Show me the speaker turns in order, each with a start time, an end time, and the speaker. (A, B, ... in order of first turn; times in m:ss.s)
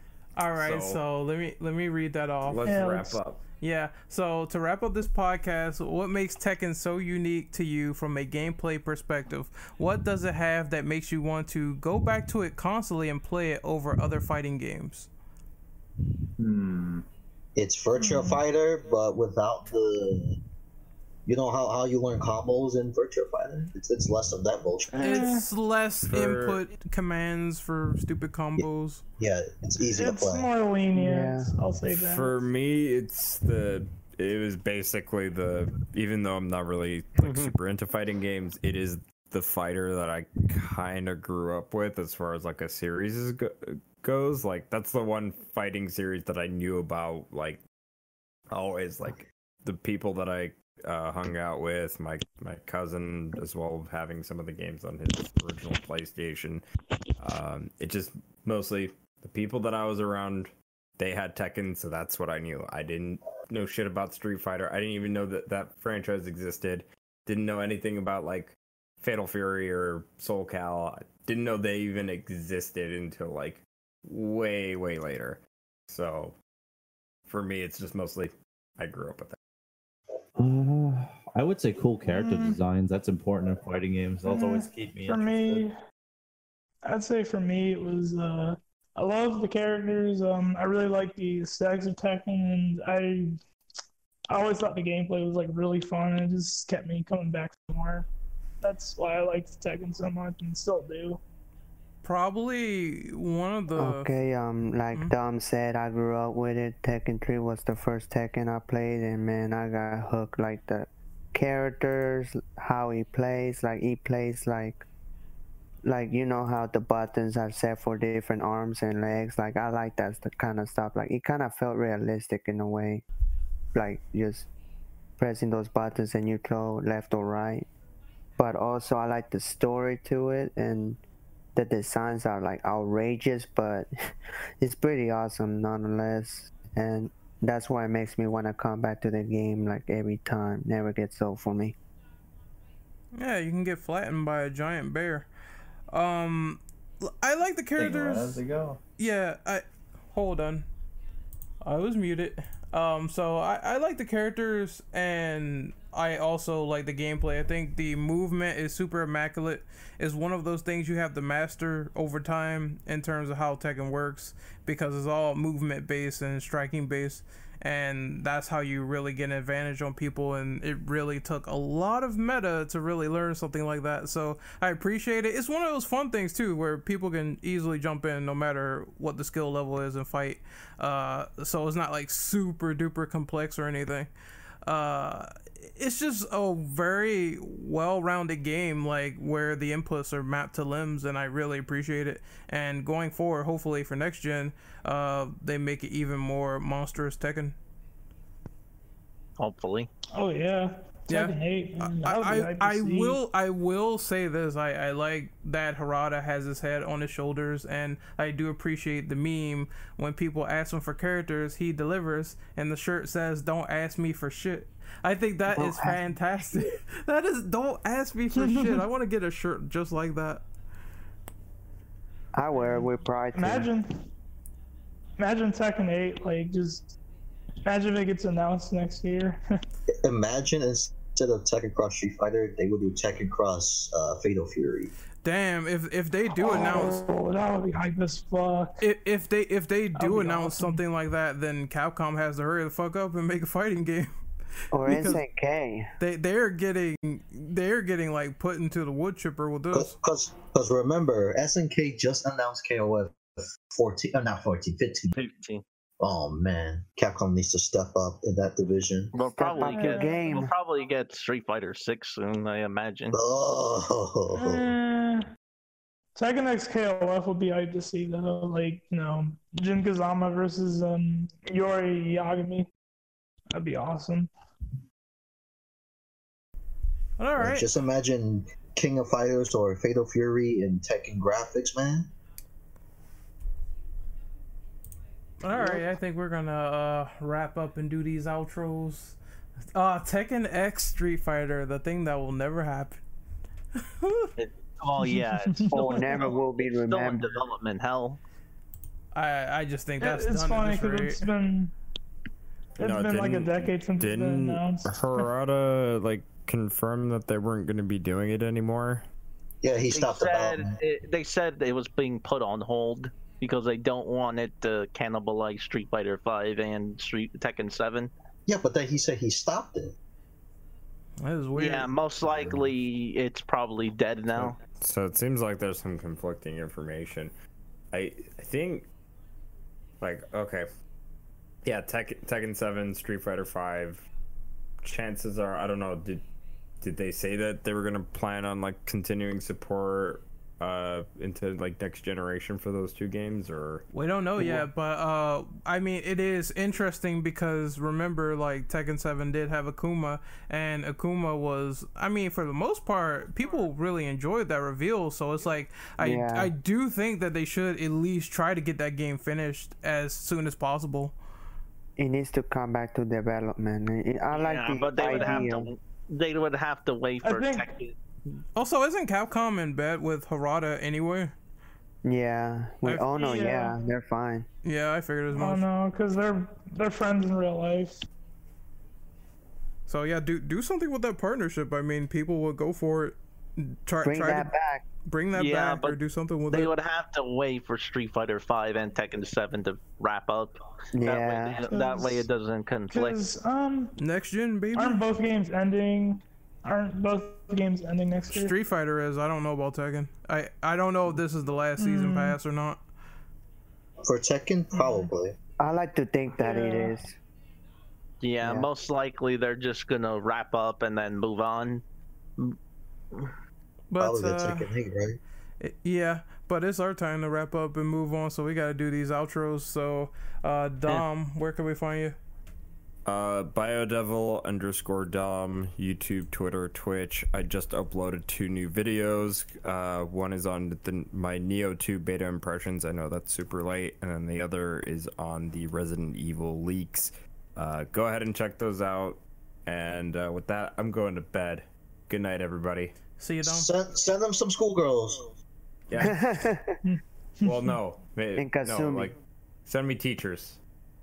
0:00.4-0:03.0 A
0:00.5-0:01.0 B
0:02.4-0:03.4 B
0:02.6-0:03.2 C
0:03.6-0:15.1 A
0:16.4-0:17.0 D
0:17.6-0:20.4 E
0:18.0-0:18.4 C
0:21.3-0:25.1 E
0:25.0-0:25.5 C
0:25.0-0:29.0 A
0:26.1-0:26.6 B
0:29.2-0:30.5 E
0:29.9-0:32.4 C
0:30.9-0:31.5 F
0:31.9-0:47.6 B
0:37.2-0:37.5 G
0:48.5-0:56.6 B
0:57.2-1:16.4 B
1:17.3-1:19.4 B
1:20.4-1:25.6 D
1:22.0-1:22.6 C
1:24.3-1:25.8 C
1:26.8-1:33.4 C
1:34.3-1:38.1 C
1:38.6-1:41.2 C
1:42.0-1:44.1 A
1:43.8-1:54.8 F
1:55.8-2:03.0 F
2:03.7-2:04.5 F
2:05.2-2:07.7 F
2:08.4-2:11.0 F
2:11.5-2:13.9 F
2:14.6-2:21.8 F
2:23.2-2:25.3 A
2:25.9-2:28.4 A
2:27.8-2:28.8 D
2:29.0-2:30.7 A
2:31.6-3:04.1 A
3:04.6-3:17.6 A
3:19.4-3:19.9 G
3:20.2-3:23.2 C
3:21.1-3:40.5 A
3:35.5-3:36.7 F
3:38.3-3:38.8 C
3:42.3-3:43.7 F
3:42.6-3:43.9 C
3:45.2-3:46.9 C
3:47.7-3:49.4 C
3:50.0-3:54.9 E
3:55.2-3:57.0 A
3:56.4-3:58.8 C
3:58.8-4:04.1 A
4:00.0-4:00.8 C
4:04.7-4:05.9 F
4:04.8-4:05.2 A
4:06.0-4:10.0 A
4:09.7-4:15.1 E
4:15.1-4:15.6 G
4:16.0-4:19.2 E
4:19.1-4:23.2 G
4:19.4-4:20.5 F
4:19.5-4:20.5 C
4:23.1-4:24.7 E
4:24.3-4:25.3 C
4:26.2-4:32.7 C
4:33.5-4:34.3 C
4:37.2-4:37.7 A
4:37.4-4:42.1 E
4:45.4-4:49.2 A
4:49.7-4:53.0 A
4:53.8-4:54.3 A
4:54.4-4:58.2 G
4:55.0-4:56.4 C
4:55.7-4:57.3 F
4:59.1-5:01.3 A
5:00.0-5:01.7 C
5:02.8-5:05.2 C
5:02.8-5:09.1 B
5:09.6-5:10.8 E
5:09.9-5:18.1 G
5:18.5-5:20.0 E
5:21.2-5:21.9 A
5:21.6-5:24.6 G
5:24.4-5:27.3 B
5:27.9-5:28.9 B
5:30.0-5:30.7 B
5:31.6-5:34.1 B
5:34.8-5:36.2 B
5:36.8-5:43.8 B
5:43.9-6:01.2 A
5:44.4-5:44.6 B
5:56.0-5:56.5 F
6:02.0-6:05.7 F
6:04.3-6:08.0 G
6:05.0-6:05.5 C
6:07.2-6:07.7 C
6:08.6-6:11.4 A
6:12.0-6:14.5 F
6:12.8-6:13.5 A
6:13.1-6:13.8 C
6:14.6-6:15.6 A
6:15.3-6:18.0 C
6:19.9-6:24.5 A
6:24.0-6:24.9 F
6:25.1-6:26.7 A
6:25.3-6:26.0 G
6:26.5-6:33.2 G
6:30.9-6:31.6 F
6:31.7-6:32.3 C
6:32.9-6:34.0 C
6:34.0-6:35.0 A
6:34.7-6:38.6 C
6:38.3-6:42.8 A
6:41.8-6:42.4 C
6:44.0-6:45.4 E
6:44.7-6:45.1 C
6:45.6-6:47.2 F
6:46.4-6:47.0 C
6:48.2-6:51.8 G
6:48.4-6:48.7 F
6:53.9-6:54.7 A
6:54.0-6:55.2 E
6:55.6-7:02.2 A
7:03.0-7:23.0 B
7:23.2-7:23.7 A
7:23.4-7:25.3 E
7:25.9-7:26.4 B
7:26.0-7:26.8 F
7:26.8-7:27.8 C
7:27.4-7:30.6 B
7:28.4-7:29.1 F